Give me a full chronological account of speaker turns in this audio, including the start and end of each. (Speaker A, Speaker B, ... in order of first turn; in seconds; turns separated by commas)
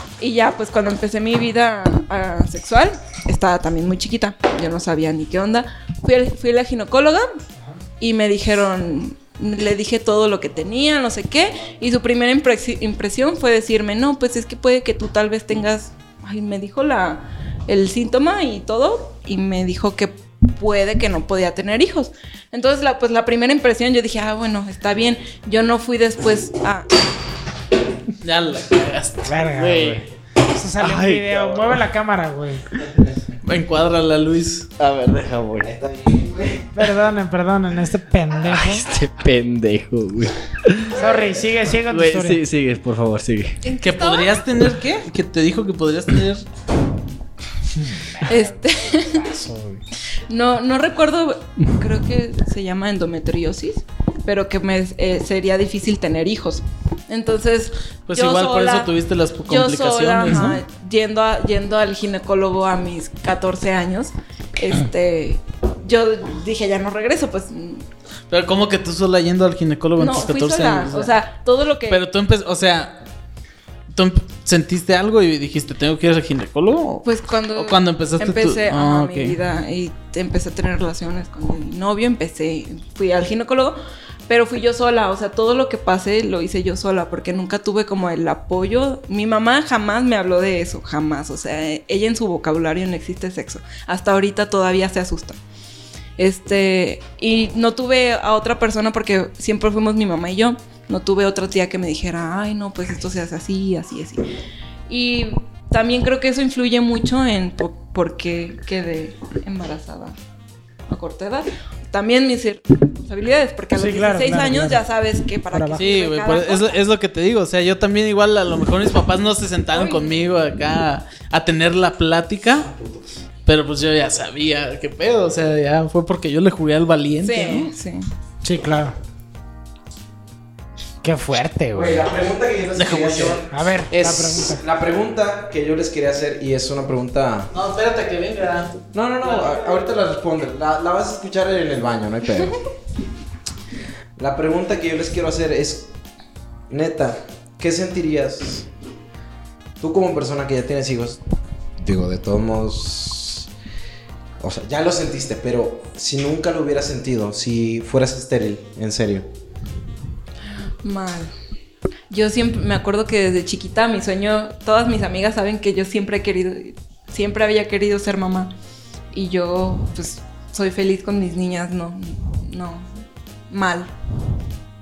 Speaker A: 0.2-7.2, Speaker A: 8.0-26.9, Speaker B: 28.2-29.4, Speaker C: 29.2-32.6, Speaker D: 29.5-30.0, Speaker D: 30.8-31.3, Speaker B: 33.4-34.7, Speaker D: 34.8-35.7, Speaker E: 35.6-36.9, Speaker C: 36.7-38.9, Speaker D: 38.5-41.0, Speaker C: 40.9-42.4, Speaker D: 41.9-43.6, Speaker A: 43.6-44.4, Speaker B: 43.8-46.4, Speaker C: 47.8-49.8, Speaker A: 48.2-49.3, Speaker A: 50.3-58.9, Speaker B: 58.1-60.6, Speaker A: 59.5-67.8, Speaker B: 68.3-71.1, Speaker A: 70.0-72.0, Speaker B: 71.9-73.0, Speaker B: 73.9-79.4, Speaker A: 77.0-95.4, Speaker A: 96.2-104.2, Speaker A: 104.9-110.1, Speaker A: 110.9-116.8, Speaker C: 113.7-114.8, Speaker C: 115.5-115.8, Speaker B: 115.8-122.7, Speaker A: 119.7-120.0, Speaker B: 123.5-127.7, Speaker A: 127.2-128.1, Speaker C: 128.4-128.9, Speaker C: 131.0-132.0, Speaker E: 131.7-137.5, Speaker B: 132.7-133.4, Speaker C: 133.5-134.6, Speaker B: 137.5-139.8, Speaker E: 138.9-142.6, Speaker E: 144.2-145.9, Speaker E: 146.7-148.7, Speaker E: 149.8-151.2, Speaker E: 151.8-153.5, Speaker E: 154.4-159.3, Speaker A: 160.8-161.3, Speaker A: 162.1-168.5, Speaker A: 169.1-172.8, Speaker A: 173.5-173.9